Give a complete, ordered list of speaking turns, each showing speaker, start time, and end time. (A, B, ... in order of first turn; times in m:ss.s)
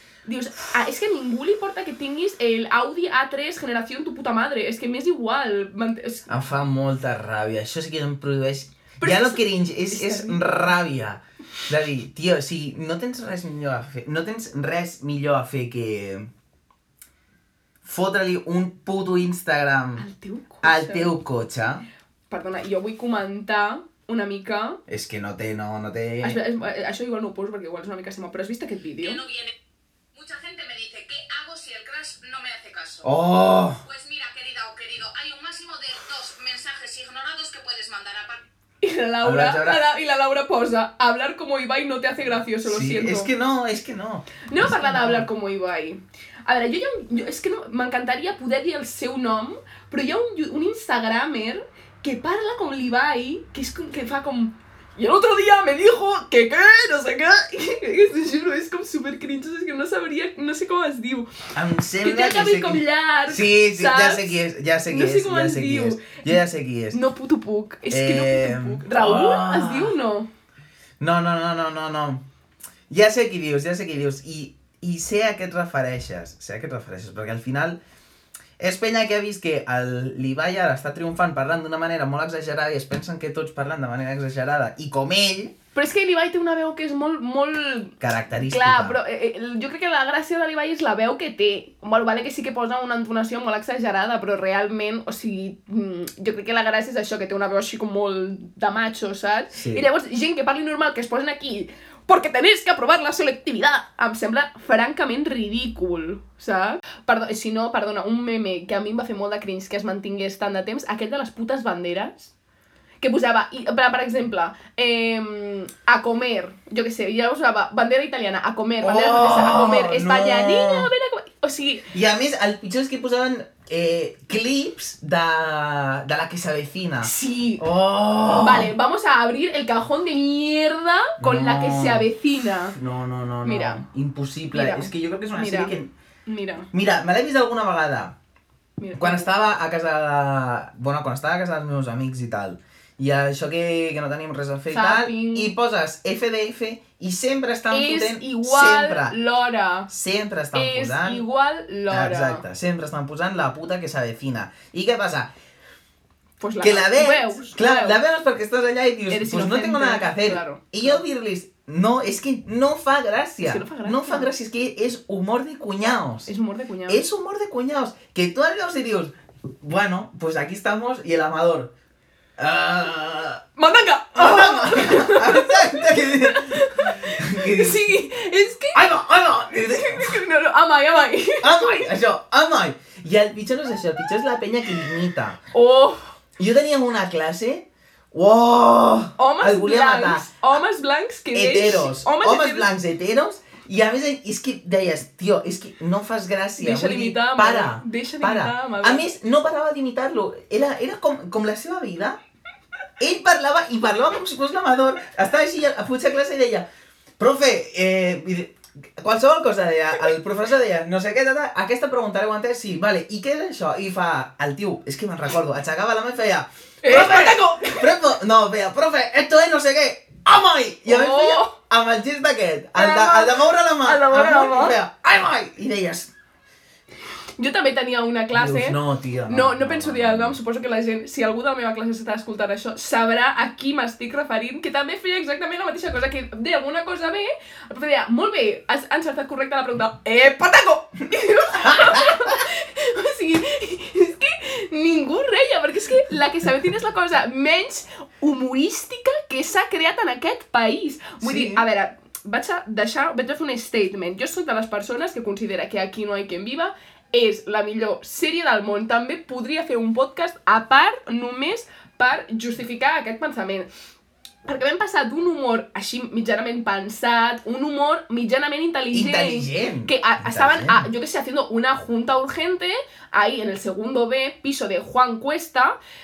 0:00.3-0:06.3 A
0:06.3-0:16.3 B
0:09.0-0:10.4 A
0:17.8-0:20.0 B
0:20.0-0:21.2 A
0:20.6-0:21.8 B
0:22.3-0:24.8 A
0:24.9-0:26.4 B
0:26.2-0:29.2 A
0:29.0-0:29.5 C
0:30.1-0:33.1 C
0:33.0-0:33.8 B
0:33.8-0:38.4 C
0:38.8-0:43.3 A
0:39.2-0:39.8 B
0:42.6-0:45.3 B
0:44.5-1:01.3 A
1:01.6-1:07.0 B
1:02.0-1:06.3 A
1:06.9-1:10.3 A
1:07.9-1:09.9 B
1:11.0-1:12.2 B
1:12.9-1:17.8 B
1:18.6-1:25.6 B
1:25.8-1:52.3 A
1:28.0-1:29.0 B
1:39.5-1:39.9 B
1:53.0-2:01.8 A
1:58.8-2:00.9 B
2:01.9-2:08.7 B
2:07.0-2:07.6 A
2:08.4-2:12.8 A
2:11.2-2:12.1 B
2:12.7-2:15.9 B
2:13.4-2:13.8 A
2:14.5-2:15.8 A
2:16.3-2:16.7 A
2:16.7-2:18.2 B
2:18.8-2:19.3 A
2:19.0-2:29.2 B
2:24.7-2:25.5 A
2:27.7-2:29.9 A
2:29.9-2:31.2 B
2:30.6-2:32.4 A
2:31.9-2:35.3 B
2:36.4-2:38.0 A
2:36.6-2:46.3 B
2:39.1-2:41.0 A
2:43.4-2:44.3 A
2:46.3-2:47.0 A
2:46.9-2:51.7 B
2:52.4-2:53.4 B
2:53.6-2:58.8 A
2:54.2-2:58.0 B
2:58.7-3:00.2 B
2:59.6-3:01.9 A
3:01.4-3:05.4 B
3:05.5-3:06.1 A
3:06.4-3:10.3 B
3:09.2-3:12.7 A
3:11.3-3:22.2 B
3:16.6-3:19.0 A
3:23.0-3:26.7 B
3:27.2-3:46.1 B
3:36.8-3:37.9 A
3:40.9-3:41.6 A
3:42.8-3:44.8 A
3:47.4-4:23.7 A
3:48.3-3:50.4 B
4:01.7-4:02.2 B
4:11.2-4:11.6 B
4:24.4-4:35.8 A
4:28.9-4:30.9 B